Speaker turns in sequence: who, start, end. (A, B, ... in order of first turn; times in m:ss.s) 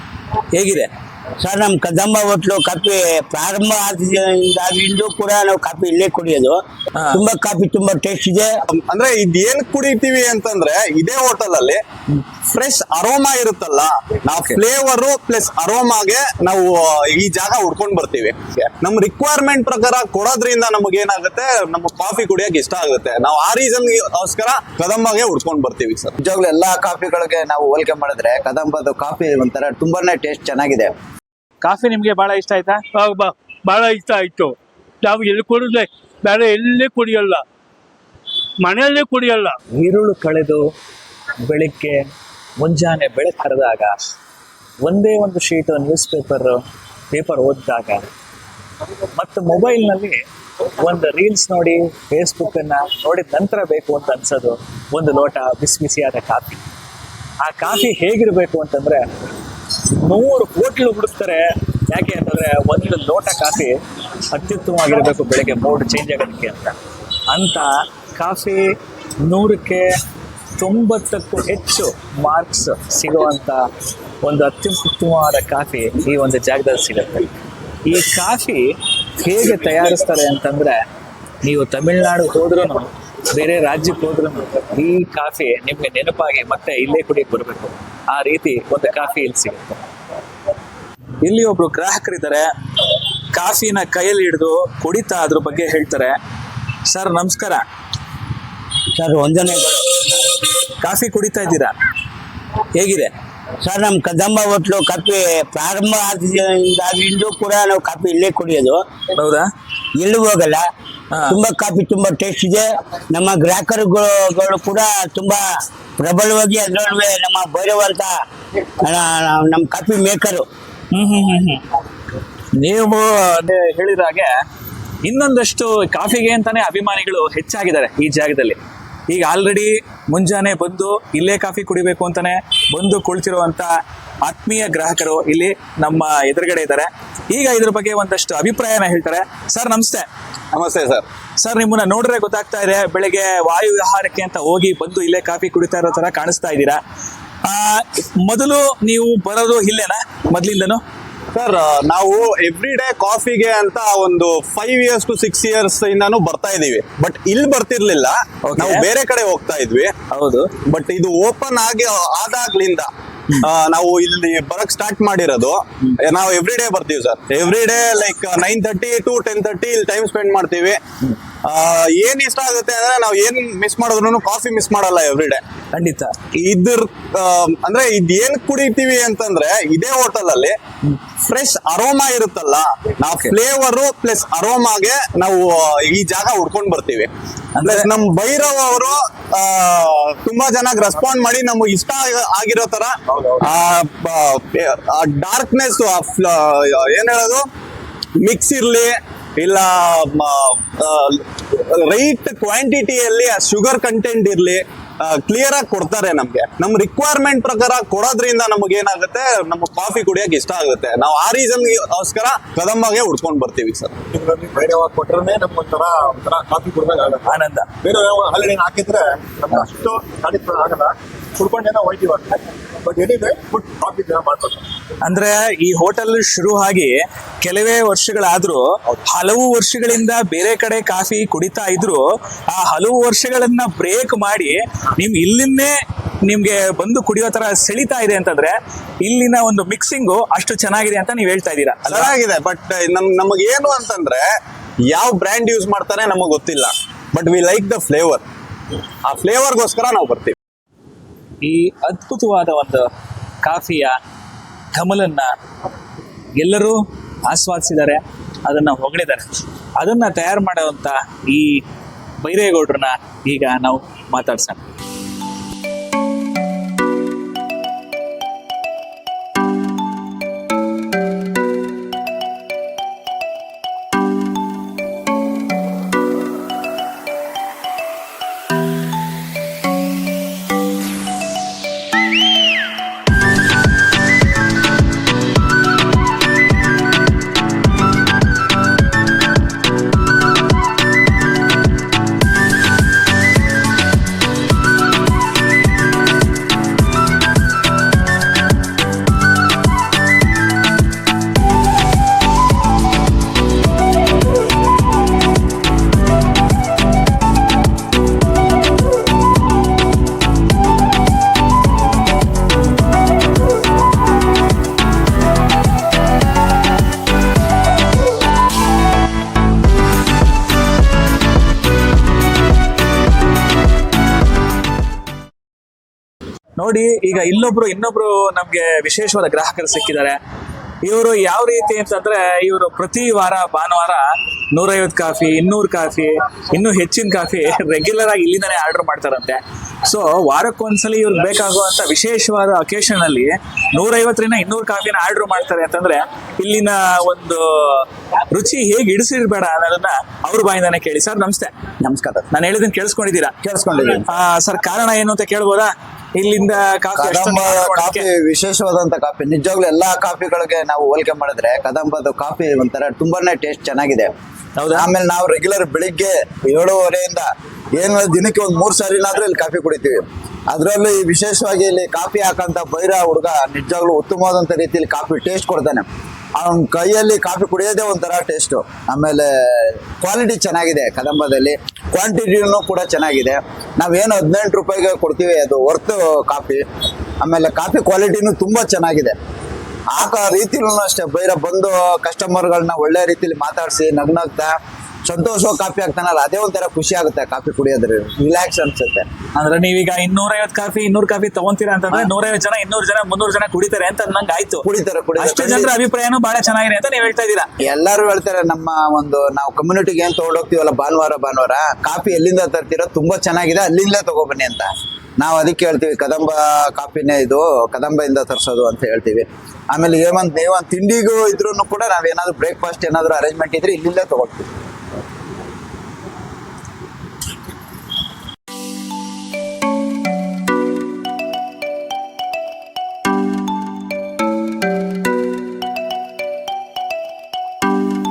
0:00.5-0:00.9 A
0:01.4-0:06.6 B
0:07.0-0:07.2 A
0:07.1-0:08.5 B
0:08.7-0:11.8 C
0:12.5-0:26.2 C
0:26.2-0:30.9 D
0:31.6-0:32.8 A
0:33.0-0:37.4 E
0:38.6-0:39.5 E
0:39.8-0:40.6 A
0:41.4-0:43.9 A
0:44.8-0:46.6 A
0:47.1-0:48.0 A
0:49.1-0:50.2 A
0:50.8-0:56.6 A
0:57.4-0:59.0 A
0:59.8-1:03.8 A
1:04.3-1:06.8 A
1:07.3-1:08.7 A
1:09.2-1:09.9 A
1:10.6-1:13.6 A
1:14.2-1:17.3 A
1:17.8-1:18.6 A
1:19.2-1:20.8 A
1:21.4-1:29.8 A
1:31.2-1:36.1 A
1:36.9-1:37.6 A
1:38.9-1:39.7 B
1:40.8-1:41.7 A
1:42.7-1:43.1 A
1:43.6-1:48.8 B
1:49.1-1:49.5 A
1:50.0-1:50.6 B
1:51.3-1:55.4 B
1:56.0-1:58.1 B
1:58.8-2:00.4 B
2:00.9-2:01.6 A
2:02.6-2:04.3 A
2:05.0-2:08.6 A
2:09.1-2:13.7 A
2:14.2-2:20.1 A
2:20.5-2:21.0 C
2:21.4-2:26.8 A
2:27.4-2:30.8 A
2:31.3-2:39.9 C
2:38.5-2:38.8 A
2:40.1-2:40.5 A
2:40.7-2:50.8 C
2:51.4-2:55.4 C
2:55.7-2:56.1 A
2:56.4-3:00.5 C
3:01.2-3:07.1 C
3:07.6-3:07.9 A
3:07.6-3:17.4 C
3:18.2-3:34.3 C
3:34.8-3:35.8 F
3:35.7-3:36.3 D
3:37.2-3:37.7 A
3:37.9-3:38.9 F
3:39.9-3:40.3 D
3:41.7-3:42.1 F
3:43.0-3:44.2 C
3:43.2-3:43.8 D
3:45.0-3:55.7 A
3:56.2-4:02.1 A
4:01.8-4:04.2 C
4:04.9-4:08.2 C
4:09.0-4:10.4 C
4:11.4-4:12.8 A
4:13.4-4:14.0 A
4:14.7-4:15.3 A
4:16.4-4:19.2 A
4:19.8-4:21.6 A
4:22.2-4:24.6 A
5:26.6-5:30.2 A
5:30.8-5:51.5 A
5:51.8-5:52.3 D
5:52.3-5:53.3 A
5:53.4-5:54.1 D
5:54.0-5:58.0 A
5:57.0-6:04.1 D
6:04.6-6:04.9 A
6:04.7-6:26.6 D
6:27.2-6:29.2 D
6:29.9-6:34.5 D
6:35.1-6:39.0 D
6:39.4-6:44.6 A
6:44.6-6:45.8 D
6:45.2-6:47.5 A
6:47.6-7:04.5 D